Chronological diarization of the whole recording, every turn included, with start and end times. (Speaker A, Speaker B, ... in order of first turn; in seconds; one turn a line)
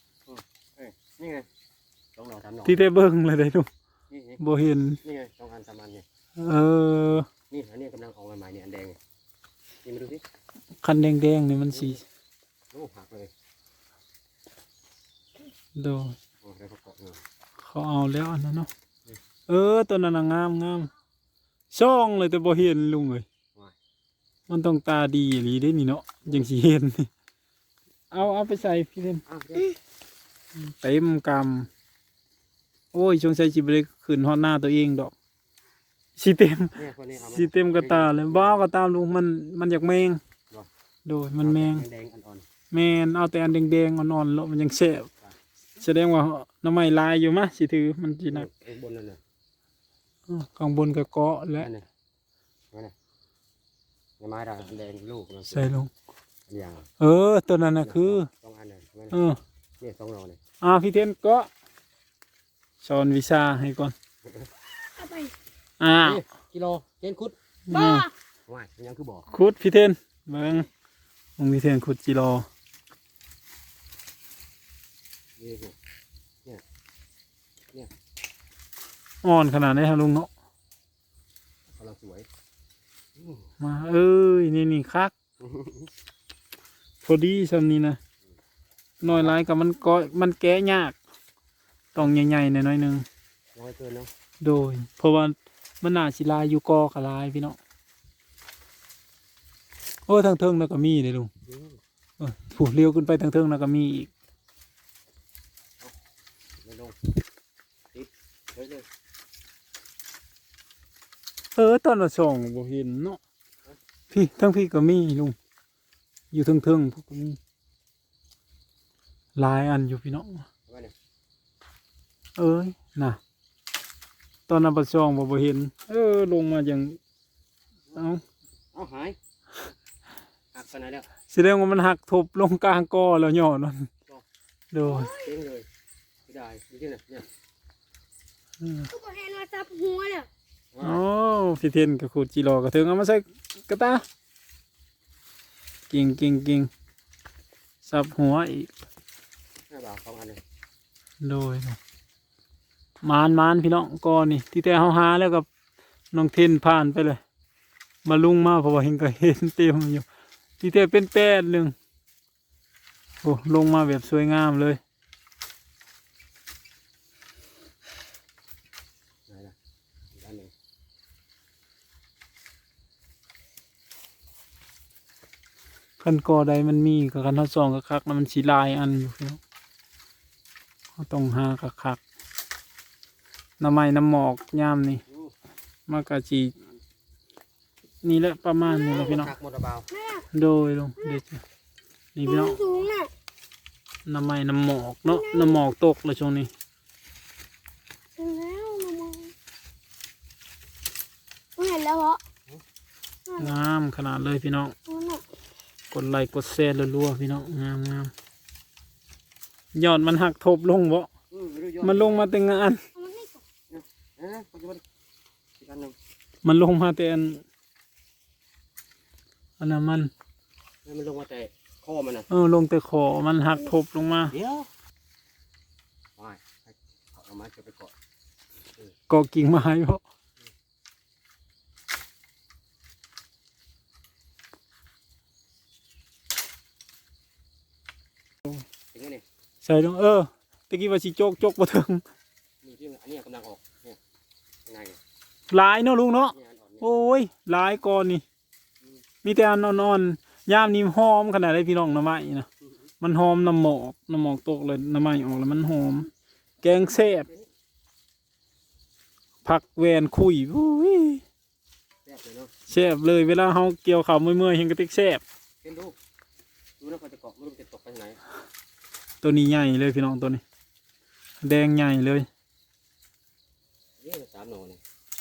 Speaker A: 0.2-1.4
Speaker A: 2.1-2.8
Speaker B: 2.6-3.7
Speaker A: 4.1-4.4
Speaker B: 4.4-5.0
Speaker A: 5.0-6.0
Speaker B: 6.4-7.3
Speaker A: 7.5-9.0
Speaker A: 9.8-10.2
Speaker B: 10.8-12.0
Speaker A: 11.7-12.0
Speaker A: 12.7-13.3
Speaker B: 15.8-16.2
Speaker A: 16.4-17.2
Speaker B: 17.6-18.7
Speaker B: 19.5-20.9
Speaker B: 21.7-23.2
Speaker B: 24.5-27.1
Speaker B: 28.1-29.8
Speaker A: 29.3-29.6
Speaker B: 30.6-31.7
Speaker B: 32.9-35.1
Speaker B: 36.2-36.8
Speaker A: 36.7-38.6
Speaker B: 37.3-40.2
Speaker B: 41.0-41.8
Speaker A: 41.4-42.4
Speaker B: 42.7-45.1
Speaker B: 45.8-48.5
Speaker A: 48.3-49.2
Speaker B: 50.3-51.7
Speaker A: 51.6-51.8
Speaker A: 54.2-55.7
Speaker B: 55.5-55.9
Speaker A: 56.5-56.9
Speaker B: 57.0-58.3
Speaker A: 57.8-59.2
Speaker B: 59.1-59.4
Speaker A: 59.8-60.4
Speaker B: 60.6-61.5
Speaker B: 62.8-63.9
Speaker A: 64.2-64.5
Speaker C: 64.8-65.3
Speaker B: 65.8-66.2
Speaker A: 65.9-67.3
Speaker B: 67.7-68.0
Speaker C: 67.7-68.1
Speaker A: 68.5-69.3
Speaker B: 69.3-70.7
Speaker B: 71.4-72.5
Speaker A: 75.4-75.8
Speaker B: 79.2-80.3
Speaker A: 81.7-82.3
Speaker A: 83.2-83.4
Speaker B: 83.6-85.1
Speaker A: 85.4-85.9
Speaker B: 87.0-88.0
Speaker B: 89.0-91.0
Speaker A: 89.0-89.4
Speaker B: 91.9-93.0
Speaker A: 93.5-94.1
Speaker B: 94.4-97.6
Speaker B: 100.1-101.3
Speaker A: 101.5-101.8
Speaker B: 102.2-104.1
Speaker A: 106.6-107.0
Speaker A: 107.9-108.8
Speaker B: 111.5-113.2
Speaker B: 114.1-115.3
Speaker B: 116.3-117.4
Speaker B: 119.3-120.4
Speaker A: 120.7-120.9
Speaker B: 122.4-123.2
Speaker B: 124.5-127.0
Speaker B: 127.9-128.2
Speaker A: 128.7-129.2
Speaker A: 130.5-131.1
Speaker B: 131.3-133.9
Speaker B: 134.7-135.1
Speaker C: 134.8-135.3
Speaker A: 135.1-135.7
Speaker A: 136.3-137.3
Speaker B: 138.6-138.9
Speaker C: 138.9-140.3
Speaker A: 140.7-141.0
Speaker B: 140.8-144.0
Speaker B: 145.9-146.7
Speaker B: 147.8-148.7
Speaker A: 149.7-150.4
Speaker B: 151.2-151.8
Speaker B: 153.0-155.5
Speaker B: 156.1-157.2
Speaker B: 158.0-160.1
Speaker B: 160.6-161.7
Speaker B: 163.2-164.8
Speaker A: 169.3-169.5
Speaker A: 170.1-170.5
Speaker B: 176.0-179.4
Speaker B: 181.0-182.0
Speaker B: 183.6-185.0
Speaker A: 185.1-185.3
Speaker B: 185.9-186.5
Speaker B: 188.0-189.3
Speaker C: 188.7-189.2
Speaker A: 188.9-189.9
Speaker C: 189.9-190.3
Speaker B: 190.3-191.4
Speaker B: 192.1-192.6
Speaker C: 192.2-193.1
Speaker B: 194.1-196.5
Speaker C: 195.1-195.6
Speaker C: 198.2-199.3
Speaker C: 201.6-202.2
Speaker C: 203.3-203.6
Speaker B: 203.4-204.7
Speaker C: 204.8-205.2
Speaker B: 205.9-208.1
Speaker B: 209.7-211.1
Speaker A: 211.3-212.3
Speaker B: 211.8-212.8
Speaker C: 212.9-213.4
Speaker A: 213.7-214.8
Speaker A: 215.6-215.9
Speaker B: 216.4-217.4
Speaker B: 219.6-220.1
Speaker A: 220.8-222.3
Speaker B: 222.3-224.3
Speaker A: 224.3-224.7
Speaker A: 226.2-227.9
Speaker B: 229.1-230.0
Speaker A: 238.9-239.2
Speaker B: 239.6-242.0
Speaker A: 242.6-244.0
Speaker A: 244.7-245.0
Speaker B: 245.5-248.2
Speaker A: 246.3-246.9
Speaker B: 249.2-252.5
Speaker B: 253.0-256.1
Speaker B: 256.6-257.3
Speaker A: 257.2-257.5
Speaker B: 259.4-261.2
Speaker A: 262.0-262.5
Speaker B: 262.7-265.2
Speaker A: 265.6-265.9
Speaker A: 266.8-268.2
Speaker B: 269.2-270.4
Speaker B: 271.4-272.3
Speaker A: 274.0-274.8